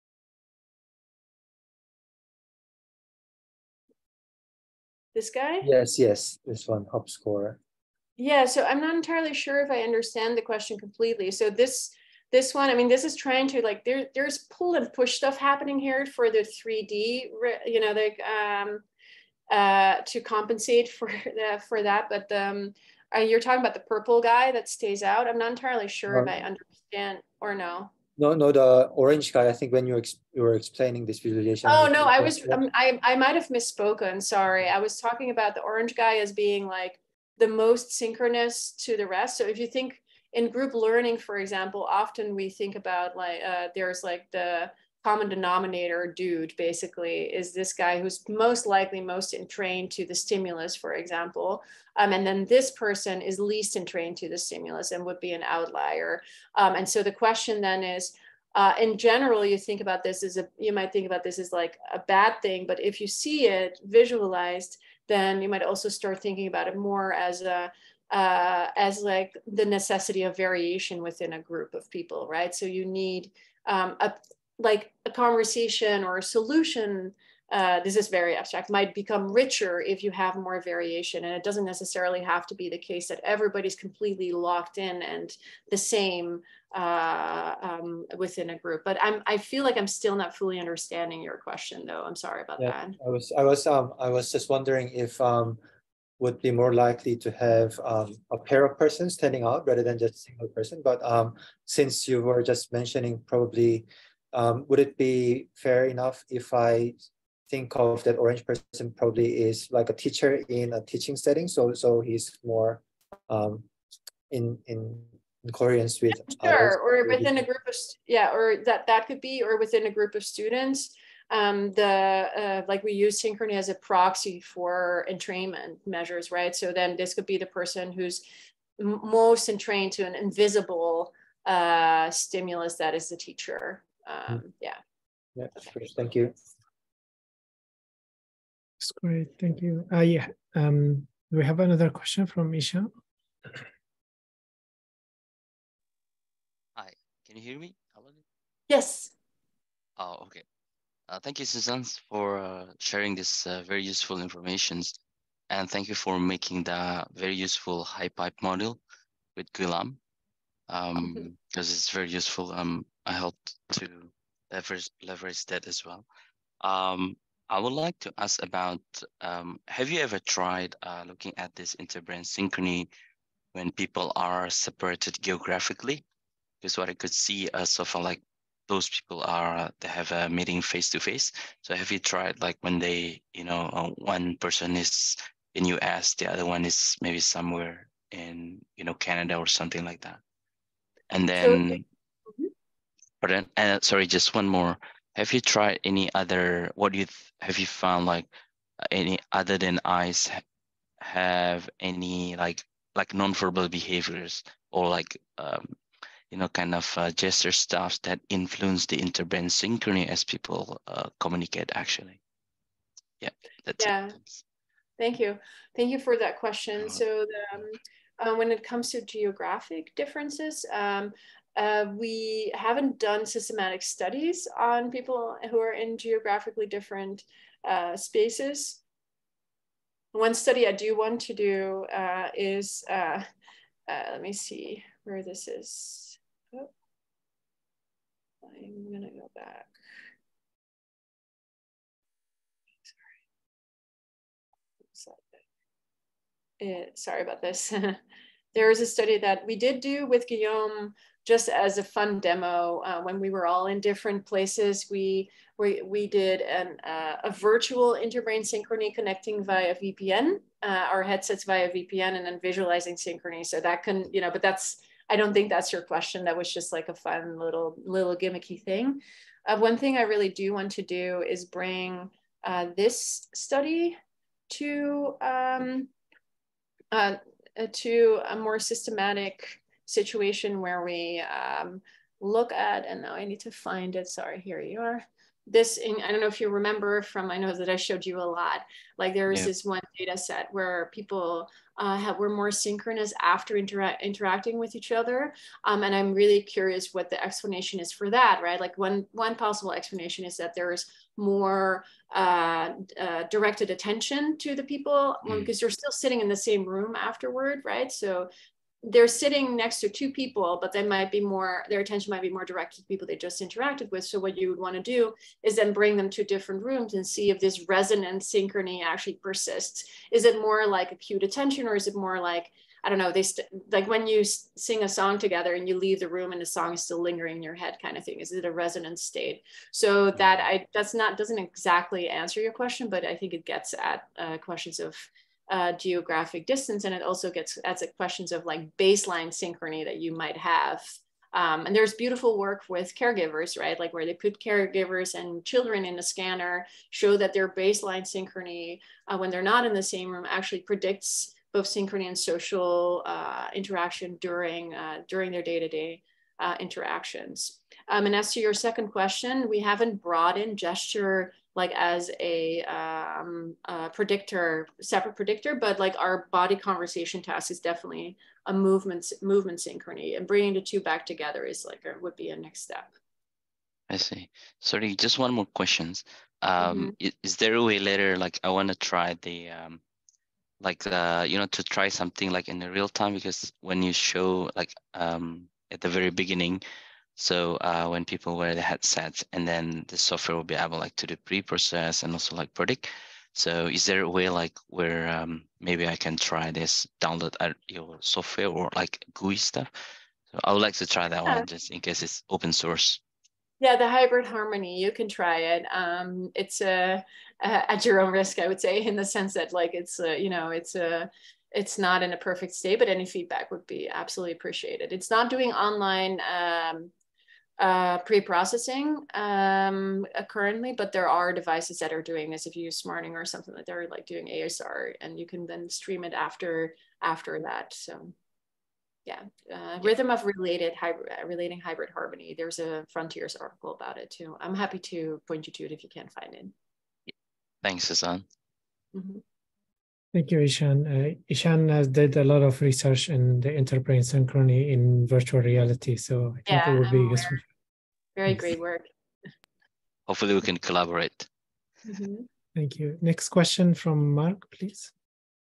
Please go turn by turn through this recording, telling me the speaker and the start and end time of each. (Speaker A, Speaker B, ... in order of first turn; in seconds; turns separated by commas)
Speaker A: 5.1-5.7, Speaker B: 5.6-7.6, Speaker A: 8.2-18.8, Speaker A: 19.5-27.9, Speaker B: 26.1-26.3, Speaker B: 28.2-32.6, Speaker A: 31.6-93.0, Speaker B: 92.6-95.6, Speaker B: 96.2-113.6, Speaker B: 114.3-117.4, Speaker A: 116.1-128.2, Speaker A: 128.8-134.8, Speaker B: 135.3-136.3, Speaker C: 138.8-142.9, Speaker D: 146.8-148.2, Speaker A: 148.7-149.1, Speaker D: 150.0-150.4, Speaker D: 151.1-154.9, Speaker D: 155.5-158.8, Speaker D: 159.3-160.0, Speaker D: 160.7-166.1, Speaker D: 166.6-172.9, Speaker D: 173.5-176.0, Speaker D: 176.6-190.2, Speaker D: 191.1-191.8, Speaker A: 191.3-191.8, Speaker D: 193.2-198.3, Speaker D: 198.8-200.4, Speaker D: 201.0-205.8, Speaker D: 206.3-212.2, Speaker D: 213.2-214.4, Speaker A: 213.8-214.2, Speaker A: 215.0-228.8, Speaker A: 230.1-233.2, Speaker A: 233.9-236.7, Speaker A: 238.4-239.7, Speaker A: 244.9-245.3, Speaker A: 246.6-248.0, Speaker A: 248.5-274.0, Speaker A: 274.5-275.9, Speaker A: 276.9-308.3, Speaker D: 305.2-305.5, Speaker A: 308.8-372.9, Speaker D: 373.9-379.8, Speaker A: 376.6-376.9, Speaker D: 380.6-386.6, Speaker D: 387.2-399.7, Speaker D: 400.3-403.0, Speaker A: 403.6-416.9, Speaker A: 417.6-428.1, Speaker A: 429.1-436.5, Speaker D: 437.6-438.2, Speaker A: 438.9-439.2, Speaker C: 440.1-447.4, Speaker A: 446.4-447.4, Speaker A: 448.1-448.9, Speaker D: 450.1-451.3, Speaker A: 451.9-452.2, Speaker C: 452.5-454.9